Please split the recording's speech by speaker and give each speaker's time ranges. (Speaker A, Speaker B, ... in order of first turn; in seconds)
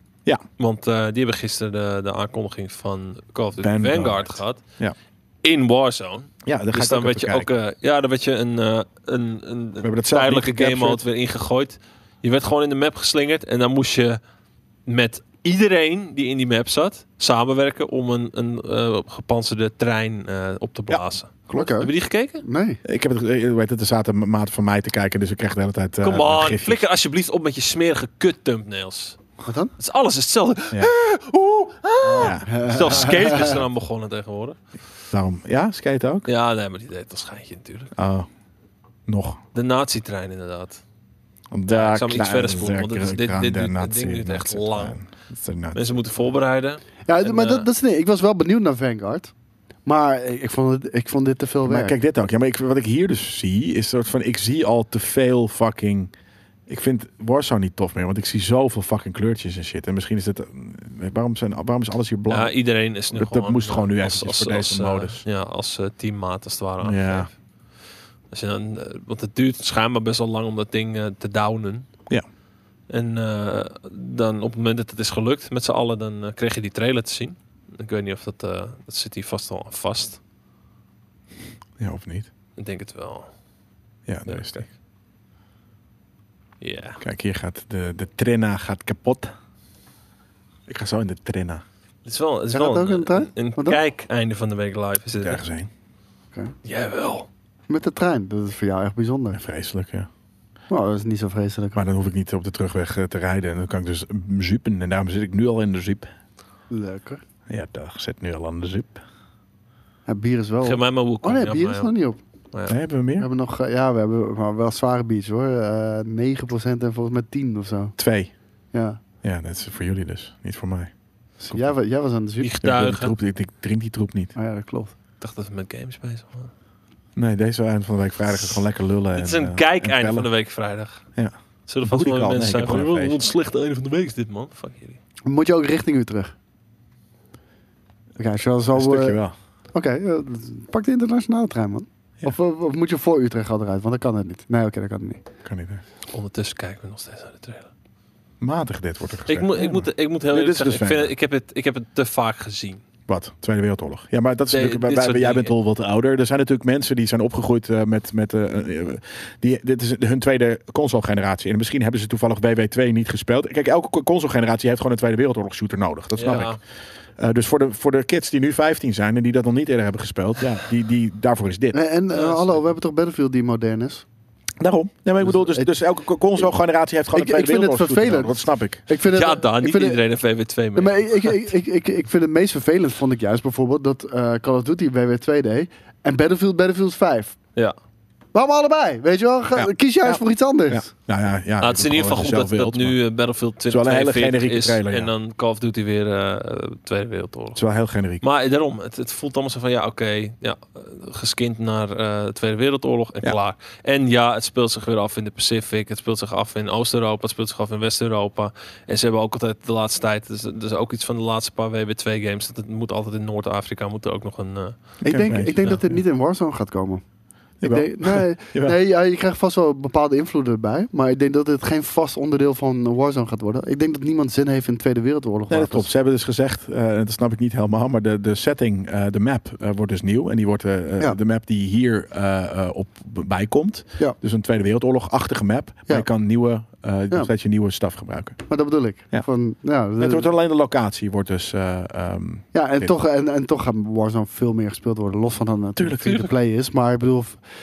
Speaker A: 0.6-4.6, 5.4-14.2, 14.8-22.4, 26.0-29.2, 29.8-34.6, 36.2-37.9, 39.5-40.8, 41.7-45.0, 45.7-47.6, 62.3-67.3, 68.3-71.9, 72.9-80.2, 82.6-83.3, 84.3-84.7, 86.6-87.0, 92.0-95.4, 96.6-97.3, 110.6-111.9, 122.4-123.1, 125.2-126.5, 129.1-131.0, 131.7-135.0, 146.1-147.7, 149.3-152.8, 154.5-155.5, 166.2-166.6, 172.1-172.6, 179.1-181.3, 191.6-197.6, 198.2-214.8
Speaker B: 3.6-4.9, 6.5-7.5, 9.8-11.0, 22.8-26.8, 32.0-33.0, 35.1-36.3, 38.0-38.3, 39.1-39.4, 41.5-46.0, 51.6-56.1, 56.7-62.5, 63.1-65.2, 66.8-67.3, 81.8-82.3, 84.1-84.7, 87.0-89.3, 90.7-91.6, 95.2-95.7, 99.3-100.1, 101.7-106.1, 107.5-109.0, 112.7-113.3, 118.0-118.3, 119.2-120.9, 121.4-121.7, 122.6-124.3, 127.2-130.3, 131.2-133.2, 138.7-139.3, 145.4-145.8, 148.4-151.1, 153.1-166.6, 167.2-171.8, 174.6-178.8, 189.5-193.0, 193.7-195.1, 197.6-198.2, 215.0-215.8, 217.6-218.8, 225.5-238.4, 240.0-242.9, 245.8-246.3
Speaker C: 21.5-22.8, 29.4-29.7, 32.5-33.6, 47.0-49.3, 49.8-51.9, 92.5-93.8, 97.7-99.4, 100.7-101.8, 106.7-107.2, 110.1-112.2, 113.2-118.0, 118.7-119.0, 121.5-122.5, 124.3-124.9, 135.2-136.3, 138.2-139.2, 139.7-145.2, 171.7-174.0, 175.2-175.7, 177.1-180.0, 180.7-187.3, 188.3-190.9, 215.0-217.0, 217.6-225.9, 238.5-240.3, 242.5-247.4